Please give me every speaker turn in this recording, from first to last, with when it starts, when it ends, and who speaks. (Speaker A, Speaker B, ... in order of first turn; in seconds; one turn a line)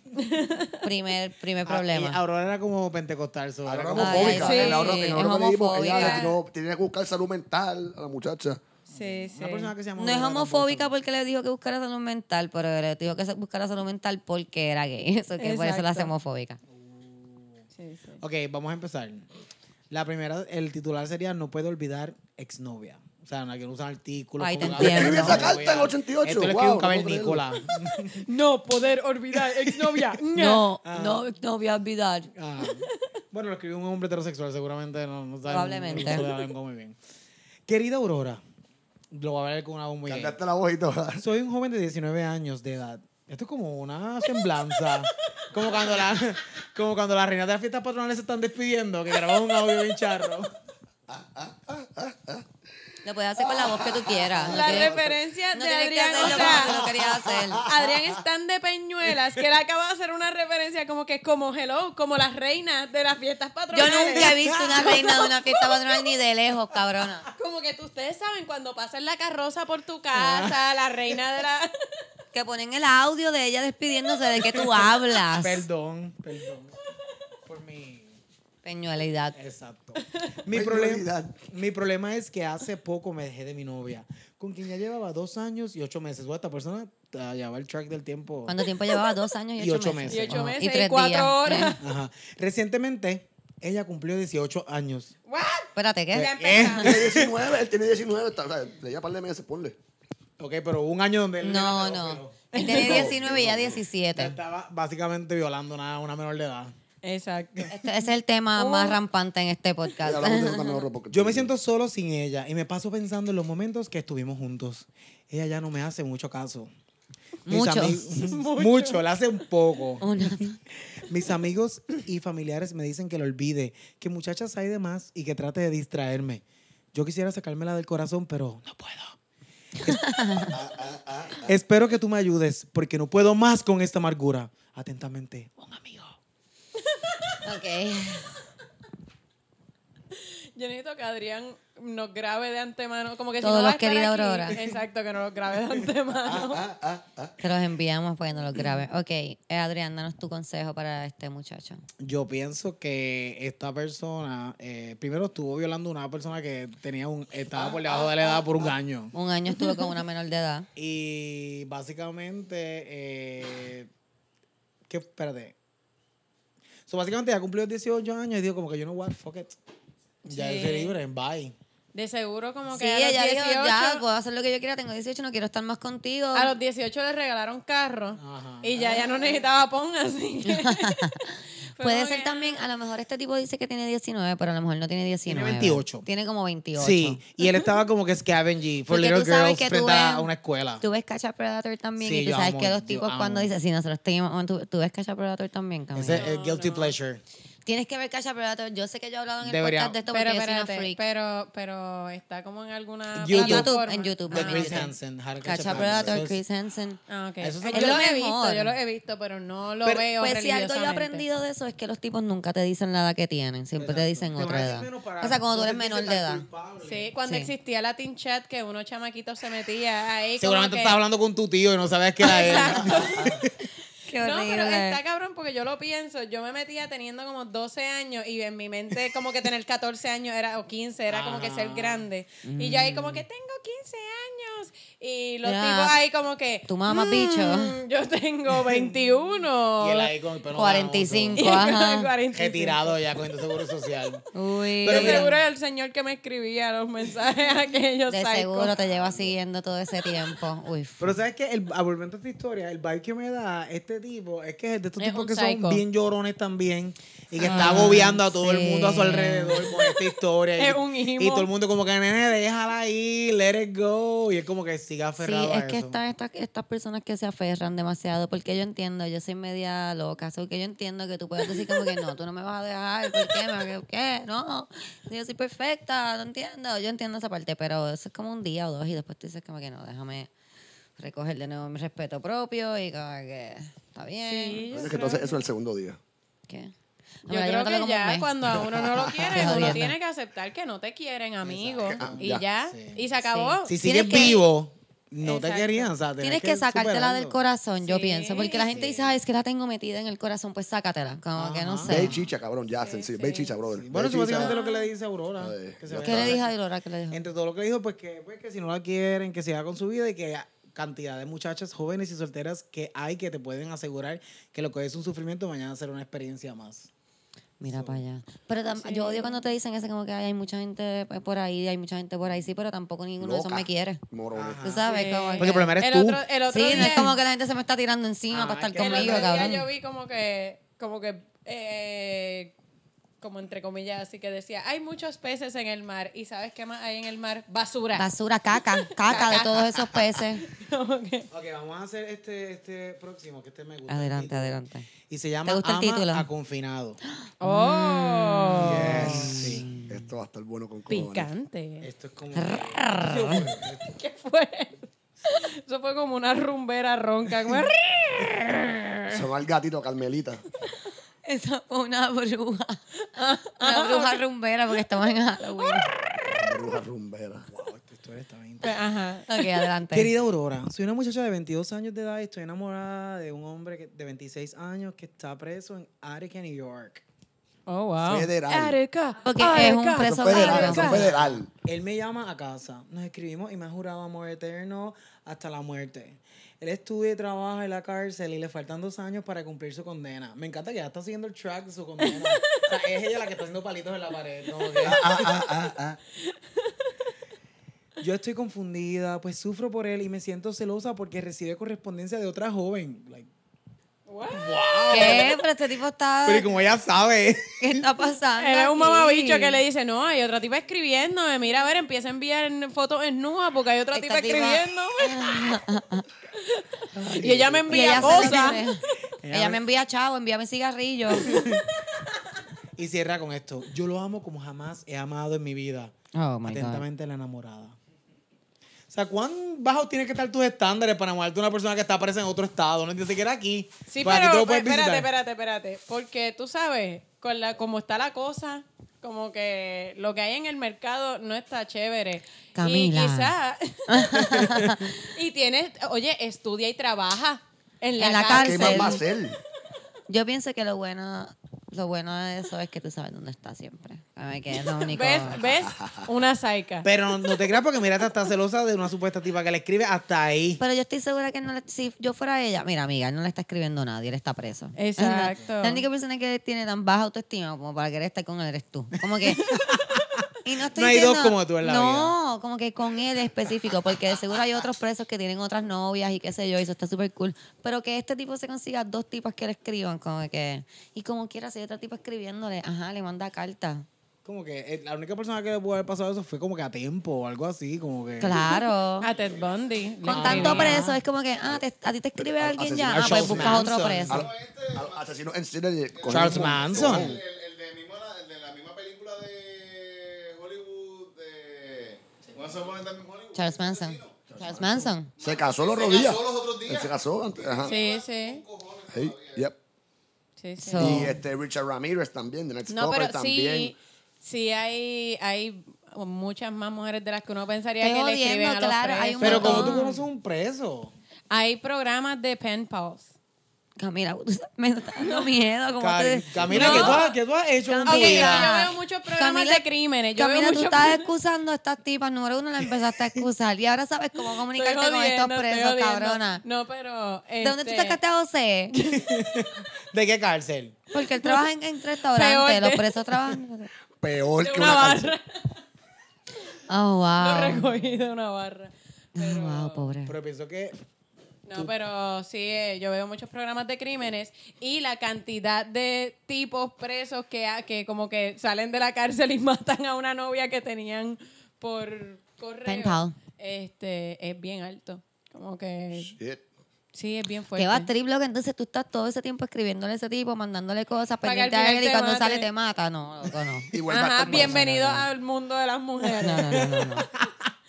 Speaker A: 0.2-0.8
Speaker B: 0.8-2.2
Speaker C: 1.6-4.7
Speaker D: 3.6-8.6
Speaker B: 4.0-6.3
Speaker A: 4.3-5.0
Speaker A: 5.8-6.4
Speaker A: 8.9-9.7
Speaker C: 8.9-10.9
Speaker B: 10.0-16.6
Speaker A: 15.4-16.1
Speaker C: 16.7-17.7
Speaker A: 17.8-18.2
Speaker C: 18.2-19.3
Speaker C: 19.9-28.3
Speaker B: 24.4-25.5
Speaker D: 24.6-27.6
Speaker A: 28.2-30.6
Speaker C: 29.5-30.2
Speaker B: 30.3-32.3
Speaker C: 30.9-31.2
Speaker C: 32.3-37.0
Speaker A: 32.6-33.0
Speaker B: 35.5-36.3
Speaker A: 36.0-36.5
Speaker C: 37.7-38.4
Speaker C: 39.1-40.3
Speaker D: 40.0-41.2
Speaker C: 41.2-50.5
Speaker A: 45.5-46.2
Speaker A: 49.1-49.8
Speaker D: 51.1-52.5
Speaker B: 53.0-55.0
Speaker D: 53.4-55.2
Speaker A: 54.5-56.8
Speaker B: 55.5-57.6
Speaker D: 56.2-57.8
Speaker A: 57.6-65.8
Speaker B: 63.7-67.3
Speaker C: 63.8-65.2
Speaker A: 67.3-71.8
Speaker C: 70.2-70.5
Speaker B: 72.3-75.7
Speaker C: 74.4-76.8
Speaker C: 77.5-78.2
Speaker B: 78.6-79.4
Speaker C: 79.3-88.6
Speaker A: 80.0-80.3
Speaker D: 80.5-81.4
Speaker B: 88.5-91.8
Speaker C: 89.6-90.5
Speaker A: 90.1-91.8
Speaker C: 91.8-95.1
Speaker A: 95.3-97.1
Speaker B: 95.8-96.3
Speaker C: 96.1-97.3
Speaker D: 96.8-99.8
Speaker C: 100.4-102.4
Speaker B: 101.4-104.4
Speaker A: 102.5-103.1
Speaker D: 102.7-103.8
Speaker C: 104.1-106.7
Speaker A: 107.0-107.7
Speaker B: 107.7-110.8
Speaker A: 108.6-109.0
Speaker D: 110.0-111.5
Speaker C: 111.1-116.7
Speaker B: 117.5-118.0
Speaker C: 117.5-126.4
Speaker A: 118.2-119.1
Speaker B: 120.0-120.6
Speaker C: 126.9-129.2
Speaker B: 129.9-130.5
Speaker D: 130.5-131.5
Speaker C: 131.4-136.2
Speaker B: 137.4-138.3
Speaker A: 140.2-146.6
Speaker B: 143.4-144.6
Speaker D: 146.2-147.4
Speaker B: 147.4-151.8
Speaker C: 152.0-159.1
Speaker D: 157.5-158.7
Speaker B: 159.1-160.7
Speaker C: 160.8-163.9
Speaker C: 164.9-165.6
Speaker C: 166.9-169.6
Speaker C: 170.2-171.6
Speaker A: 170.3-170.9
Speaker A: 171.9-174.0
Speaker B: 172.7-176.6
Speaker A: 176.3-181.2
Speaker C: 178.2-179.4
Speaker B: 180.5-187.2
Speaker A: 181.7-182.6
Speaker C: 185.3-186.1
Speaker C: 186.8-190.8
Speaker B: 188.9-190.3
Speaker B: 190.8-196.3
Speaker C: 192.0-193.5
Speaker C: 195.9-197.2
Speaker A: 196.1-196.9
Speaker B: 197.7-201.0
Speaker C: 199.4-200.0
Speaker A: 200.1-204.9
Speaker C: 203.1-203.7
Speaker B: 203.3-207.0
Speaker C: 204.3-206.4
Speaker D: 205.7-206.2
Speaker A: 207.1-211.2
Speaker C: 207.4-208.0
Speaker B: 207.7-208.7
Speaker B: 209.8-216.5
Speaker C: 213.8-217.1
Speaker A: 216.8-221.0
Speaker B: 217.2-217.5
Speaker C: 220.4-223.7
Speaker A: 222.2-223.4
Speaker B: 224.1-225.0
Speaker A: 224.2-240.1
Speaker C: 231.1-232.1
Speaker B: 232.4-233.2
Speaker B: 235.4-236.0
Speaker B: 236.7-237.8
Speaker C: 238.5-239.2
Speaker C: 239.8-241.5
Speaker B: 240.5-242.1
Speaker A: 241.4-243.0
Speaker C: 242.3-244.3
Speaker B: 244.3-245.3
Speaker C: 244.8-245.4
Speaker A: 244.9-248.8
Speaker B: 248.1-251.2
Speaker C: 248.8-249.3
Speaker C: 251.0-266.0
Speaker A: 255.0-255.8
Speaker A: 257.4-258.1
Speaker B: 257.4-259.8
Speaker A: 260.6-261.5
Speaker B: 265.2-280.3
Speaker B: 281.0-284.7
Speaker A: 284.3-285.3
Speaker D: 284.7-286.0
Speaker B: 286.5-286.7
Speaker B: 287.3-288.3
Speaker A: 287.3-294.5
Speaker D: 288.5-289.3
Speaker B: 289.3-289.9
Speaker C: 289.4-289.8
Speaker C: 291.4-293.0
Speaker D: 291.9-292.4
Speaker B: 293.2-294.4
Speaker C: 293.7-297.4
Speaker A: 295.2-295.9
Speaker B: 296.2-302.1
Speaker A: 297.8-298.8
Speaker C: 298.6-299.2
Speaker C: 301.4-302.3
Speaker D: 301.9-304.5
Speaker A: 302.8-303.5
Speaker C: 303.7-306.5
Speaker A: 304.4-305.0
Speaker D: 305.4-306.4
Speaker B: 306.0-307.2
Speaker C: 307.1-316.9
Speaker B: 317.6-324.0
Speaker C: 317.6-318.0
Speaker A: 318.8-319.4
Speaker D: 323.2-324.6
Speaker C: 324.3-324.9
Speaker B: 324.6-325.7
Speaker A: 324.9-327.1
Speaker C: 325.4-327.1
Speaker B: 326.5-329.7
Speaker C: 328.3-329.5
Speaker A: 328.8-332.5
Speaker A: 333.2-338.1
Speaker B: 338.0-340.4
Speaker A: 339.0-341.3
Speaker C: 341.3-347.0
Speaker B: 343.9-344.9
Speaker B: 345.4-346.3
Speaker B: 347.2-350.0
Speaker A: 347.4-349.2
Speaker C: 348.6-349.7
Speaker D: 349.0-351.3
Speaker A: 350.9-351.9
Speaker C: 351.8-354.0
Speaker B: 352.4-353.5
Speaker A: 353.9-359.2
Speaker C: 357.4-357.7
Speaker D: 359.1-360.4
Speaker B: 361.2-362.8
Speaker A: 363.0-364.2
Speaker B: 363.6-365.9
Speaker D: 366.2-367.5
Speaker C: 367.5-368.8
Speaker A: 368.6-369.6
Speaker B: 369.3-370.1
Speaker C: 369.9-377.0
Speaker A: 377.7-381.1
Speaker D: 378.0-378.8
Speaker B: 379.2-381.1
Speaker D: 380.0-381.5
Speaker C: 380.7-395.1
Speaker A: 392.0-392.7
Speaker A: 394.6-395.0
Speaker D: 394.8-396.0
Speaker A: 396.3-396.9
Speaker C: 398.0-403.3
Speaker A: 404.1-405.3
Speaker C: 404.3-405.4
Speaker B: 404.9-406.5
Speaker C: 406.2-407.8
Speaker B: 407.6-409.6
Speaker A: 408.4-415.5
Speaker B: 413.9-416.0
Speaker A: 416.4-418.7
Speaker C: 416.9-418.6
Speaker B: 417.7-418.8
Speaker C: 419.2-419.6
Speaker B: 419.3-421.4
Speaker A: 421.2-421.5
Speaker C: 421.2-421.6
Speaker C: 422.8-425.9
Speaker B: 426.1-426.8
Speaker C: 426.5-427.8
Speaker C: 428.9-435.1
Speaker A: 433.9-444.4
Speaker B: 442.6-443.3
Speaker B: 443.9-445.1
Speaker C: 444.2-444.7
Speaker A: 445.0-449.0
Speaker B: 448.0-449.0
Speaker D: 448.3-449.4
Speaker B: 450.1-455.4
Speaker A: 454.9-456.9
Speaker D: 455.7-456.0
Speaker C: 456.8-460.6
Speaker B: 460.6-469.5
Speaker A: 464.8-465.9
Speaker C: 465.1-465.5
Speaker C: 469.1-470.0
Speaker B: 470.4-483.9
Speaker C: 470.7-472.2
Speaker C: 484.2-488.4
Speaker B: 488.2-489.1
Speaker A: 489.0-490.8
Speaker E: 489.1-489.5
Speaker C: 490.1-491.0
Speaker B: 490.1-494.2
Speaker D: 492.2-497.2
Speaker C: 492.9-494.2
Speaker E: 494.1-495.1
Speaker E: 495.9-504.3
Speaker C: 496.1-497.1
Speaker B: 503.3-505.1
Speaker D: 504.3-507.8
Speaker E: 505.2-509.5
Speaker A: 507.7-508.4
Speaker D: 508.9-509.6
Speaker A: 510.4-511.1
Speaker B: 510.6-511.1
Speaker D: 510.8-513.7
Speaker A: 512.7-519.8
Speaker B: 517.8-520.0
Speaker C: 519.2-520.9
Speaker A: 521.3-523.1
Speaker B: 523.8-527.1
Speaker C: 525.8-528.5
Speaker A: 526.5-527.2
Speaker B: 527.6-529.6
Speaker A: 527.9-531.1
Speaker B: 530.2-536.4
Speaker A: 534.4-538.0
Speaker B: 537.4-538.8
Speaker A: 538.7-539.1
Speaker C: 538.9-540.8
Speaker B: 540.9-543.7
Speaker A: 542.1-543.0
Speaker D: 544.0-545.2
Speaker A: 544.4-545.4
Speaker B: 546.7-547.7
Speaker A: 547.2-549.9
Speaker B: 549.2-550.1
Speaker C: 550.1-550.8
Speaker A: 551.5-566.1
Speaker B: 562.6-563.2
Speaker D: 565.9-566.5
Speaker A: 566.9-567.9
Speaker B: 567.6-575.1
Speaker A: 571.2-572.5
Speaker D: 573.7-574.7
Speaker A: 573.9-576.7
Speaker C: 576.0-577.3
Speaker B: 576.2-577.1